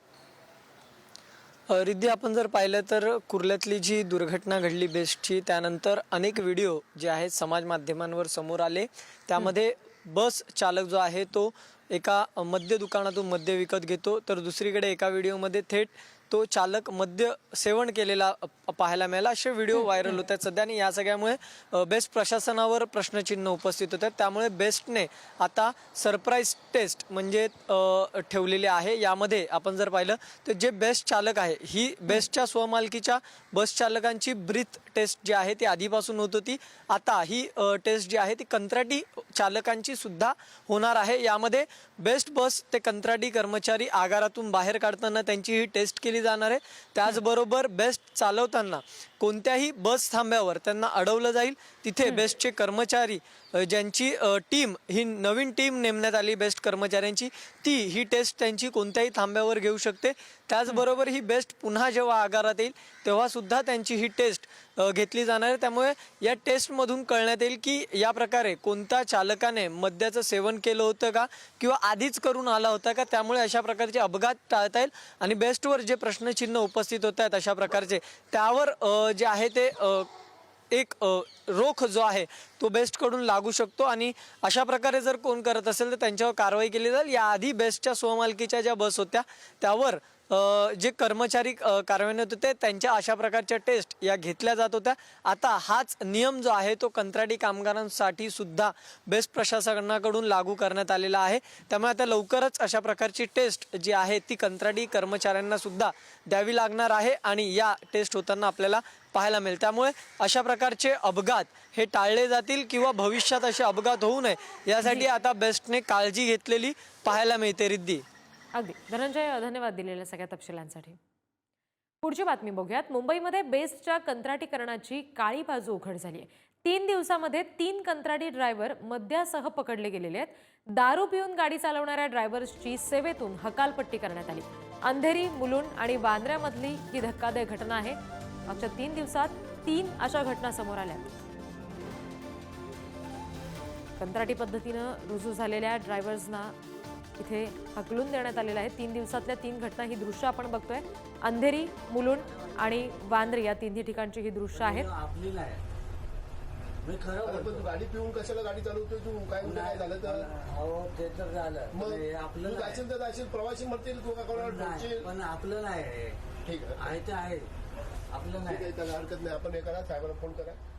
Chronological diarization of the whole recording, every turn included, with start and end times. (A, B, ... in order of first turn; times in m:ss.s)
0:01.7-1:20.1 A
1:20.7-1:58.0 A
1:58.5-2:01.0 B
2:02.0-2:21.1 B
2:24.0-2:26.6 B
2:27.2-2:34.9 B
2:32.4-2:33.1 C
2:34.5-2:35.6 C
2:36.8-2:37.7 C
2:37.2-2:40.3 D
2:39.4-2:42.8 C
2:41.7-2:45.1 D
2:44.3-2:46.2 C
2:46.4-2:46.9 D
2:46.8-2:47.5 C
2:48.1-2:48.8 C
2:48.4-2:50.6 D